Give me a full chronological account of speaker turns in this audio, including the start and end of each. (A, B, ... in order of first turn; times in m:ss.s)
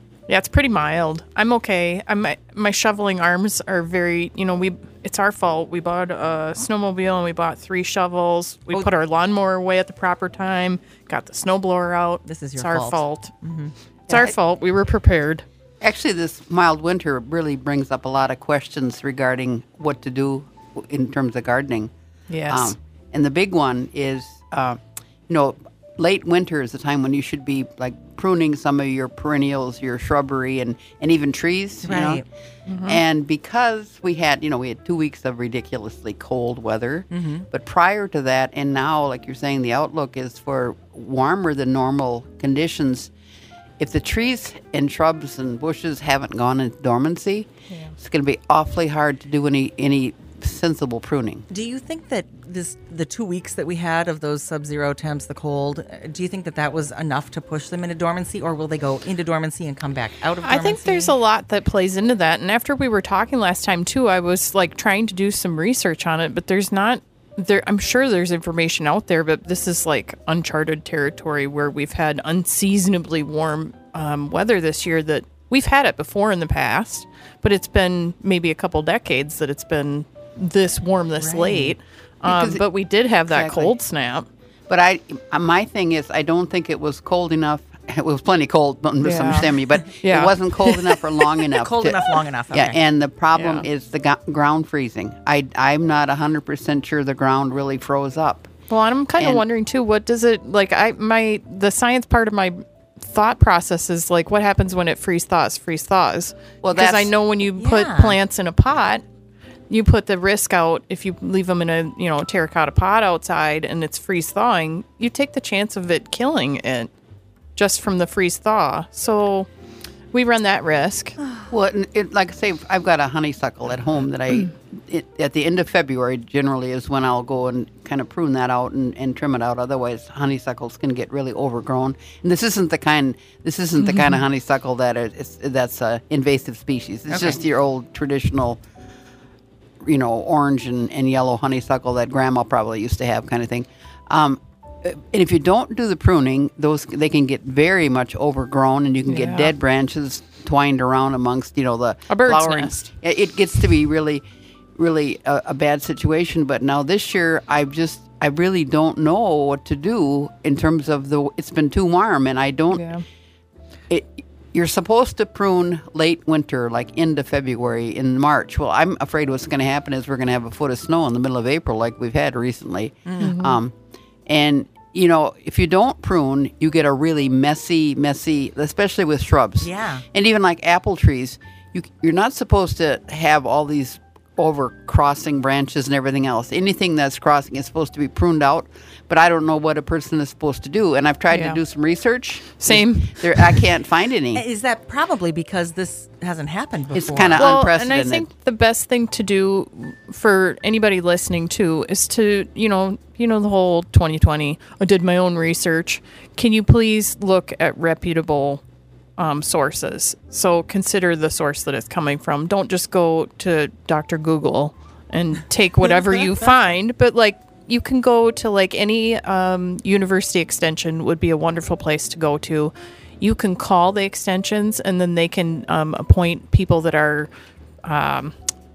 0:00.3-0:13.3 A
0:12.3-0:13.7 B
0:14.1-0:15.4 A
0:15.8-0:21.9 C
0:22.3-0:22.7 A
0:22.5-0:32.2 C
0:31.8-0:32.2 B
0:32.7-0:33.0 A
0:32.8-0:43.1 C
0:37.1-0:37.5 B
0:43.8-0:51.5 C
0:51.5-1:01.2 B
1:00.4-1:24.2 A
1:21.2-1:21.8 B
1:22.2-1:22.6 C
1:23.3-1:23.7 C
1:24.7-1:38.5 C
1:29.0-1:31.3 A
1:31.6-1:32.8 B
1:33.3-1:33.7 A
1:38.7-1:49.0 A
1:39.2-1:39.4 C
1:46.6-1:47.1 C
1:47.6-1:48.2 B
1:49.7-1:56.9 A
1:57.6-1:59.5 A
2:00.1-2:01.2 A
2:01.5-2:18.6 C
2:13.8-2:14.2 A
2:17.1-2:17.4 B
2:19.8-2:34.2 C
2:29.1-2:29.5 A
2:32.1-2:32.9 A
2:34.8-2:42.9 C
2:42.7-2:43.0 A
2:43.9-2:53.7 C
2:53.1-2:53.4 B
2:53.2-2:53.6 A
2:54.2-3:14.4 C
2:59.6-3:00.0 B
3:11.3-3:11.6 A
3:12.6-3:13.6 A
3:14.3-3:17.5 B
3:16.9-3:18.2 C
3:17.3-3:28.6 A
3:29.2-3:47.3 A
3:47.8-3:48.3 A